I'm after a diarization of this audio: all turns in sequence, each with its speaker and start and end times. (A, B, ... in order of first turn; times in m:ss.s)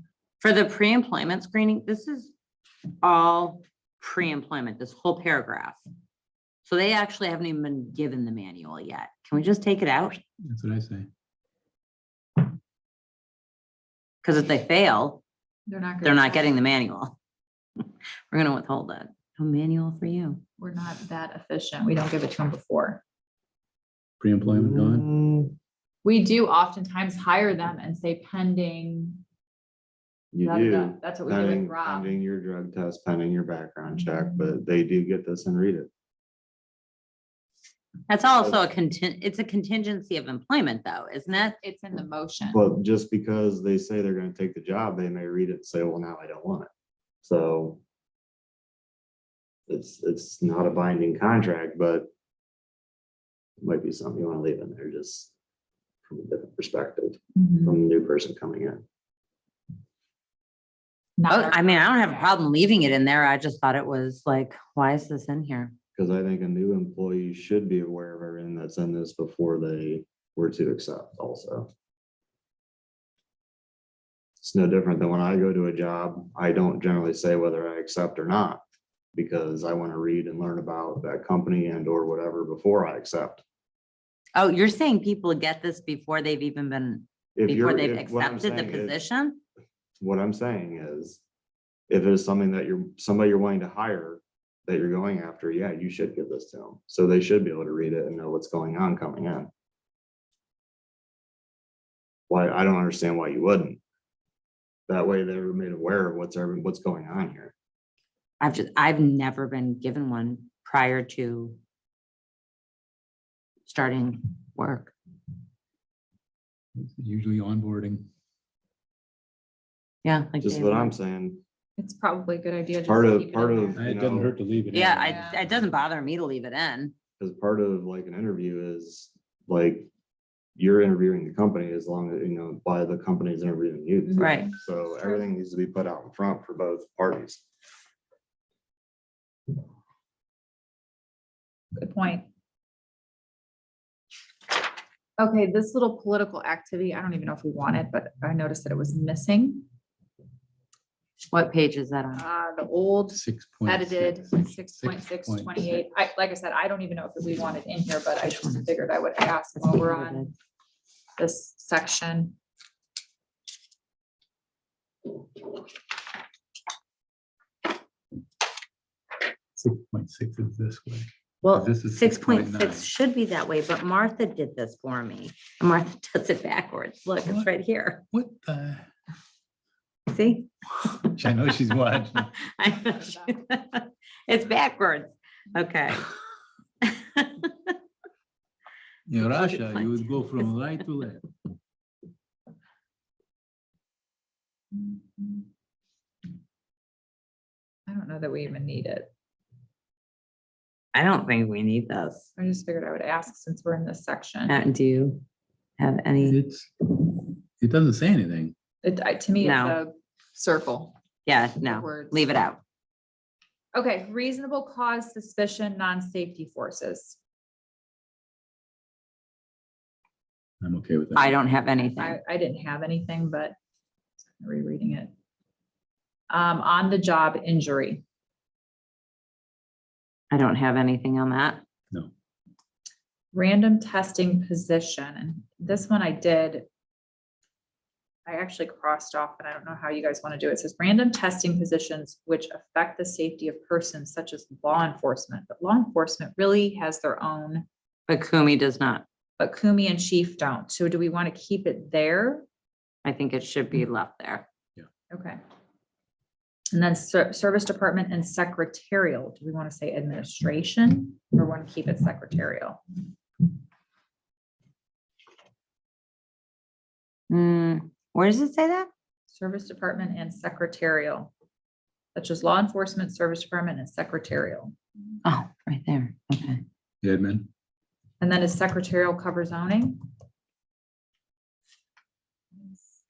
0:00.4-0:02.3 A
0:03.0-0:05.8 A
0:06.6-0:10.2 A
0:10.4-0:11.1 B
0:14.2-0:15.2 A
0:15.7-0:16.6 C
0:16.0-0:17.2 A
0:18.3-0:20.4 A
0:20.6-0:23.0 C
0:24.2-0:25.1 B
0:24.4-0:25.5 D
0:26.0-0:29.2 C
0:30.3-0:35.9 D
0:30.4-0:32.2 C
0:38.1-0:41.6 A
0:38.4-0:38.7 D
0:41.5-0:42.6 C
0:42.5-0:46.7 D
0:47.2-0:47.8 D
0:49.7-0:52.1 D
0:53.6-0:55.3 D
0:56.1-0:58.8 D
0:57.4-0:57.8 C
1:01.2-1:02.4 C
1:01.3-1:05.7 A
1:06.0-1:11.7 D
1:14.4-1:18.6 D
1:19.2-1:23.4 D
1:24.4-1:29.4 A
1:27.4-1:29.0 D
1:30.0-1:31.2 D
1:31.9-1:39.5 D
1:42.3-1:43.8 D
1:44.9-1:47.5 D
1:48.4-1:51.6 A
1:53.7-1:54.9 A
1:56.8-1:58.1 B
2:00.0-2:00.9 A
2:00.4-2:01.4 D
2:01.8-2:03.8 C
2:02.9-2:04.4 D
2:03.8-2:05.5 B
2:04.7-2:06.9 A
2:05.0-2:05.4 C
2:07.2-2:09.9 D
2:10.6-2:17.4 D
2:14.1-2:15.3 C
2:14.2-2:14.5 A
2:21.8-2:22.3 C
2:25.2-2:29.7 C
2:31.3-2:32.3 A
2:32.1-2:40.3 C
2:33.1-2:35.8 B
2:38.3-2:38.6 A
2:39.6-2:40.3 A
2:41.2-2:42.4 C
2:49.6-2:52.9 B
2:51.4-2:58.1 A
2:58.1-2:58.9 B
3:00.1-3:00.5 A
3:01.0-3:02.4 B
3:02.4-3:06.1 A
3:02.7-3:03.3 C
3:06.8-3:07.7 A
3:09.1-3:11.3 B
3:09.2-3:10.0 A
3:14.7-3:15.5 C
3:17.9-3:19.1 C
3:20.9-3:22.3 A
3:22.4-3:24.6 C
3:24.5-3:25.2 A
3:25.8-3:26.4 A
3:26.2-3:26.7 B
3:27.6-3:28.5 B
3:28.8-3:31.0 C
3:29.4-3:29.8 A
3:31.3-3:32.6 A
3:31.6-3:32.3 C
3:33.7-3:37.2 C
3:40.6-3:41.4 B
3:41.2-3:42.2 A
3:42.0-3:43.6 C
3:44.3-3:45.1 C
3:46.3-3:48.0 C
3:50.3-3:51.6 A
3:53.3-3:56.7 C
3:58.3-4:07.7 C
4:08.1-4:09.0 A
4:09.4-4:12.5 C
4:13.0-4:14.4 A
4:15.1-4:15.4 C
4:16.7-4:22.8 C
4:27.3-4:28.9 A
4:29.3-4:31.3 C
4:32.2-4:34.8 C
4:35.2-4:36.6 A
4:37.0-4:37.5 B
4:38.2-4:40.0 C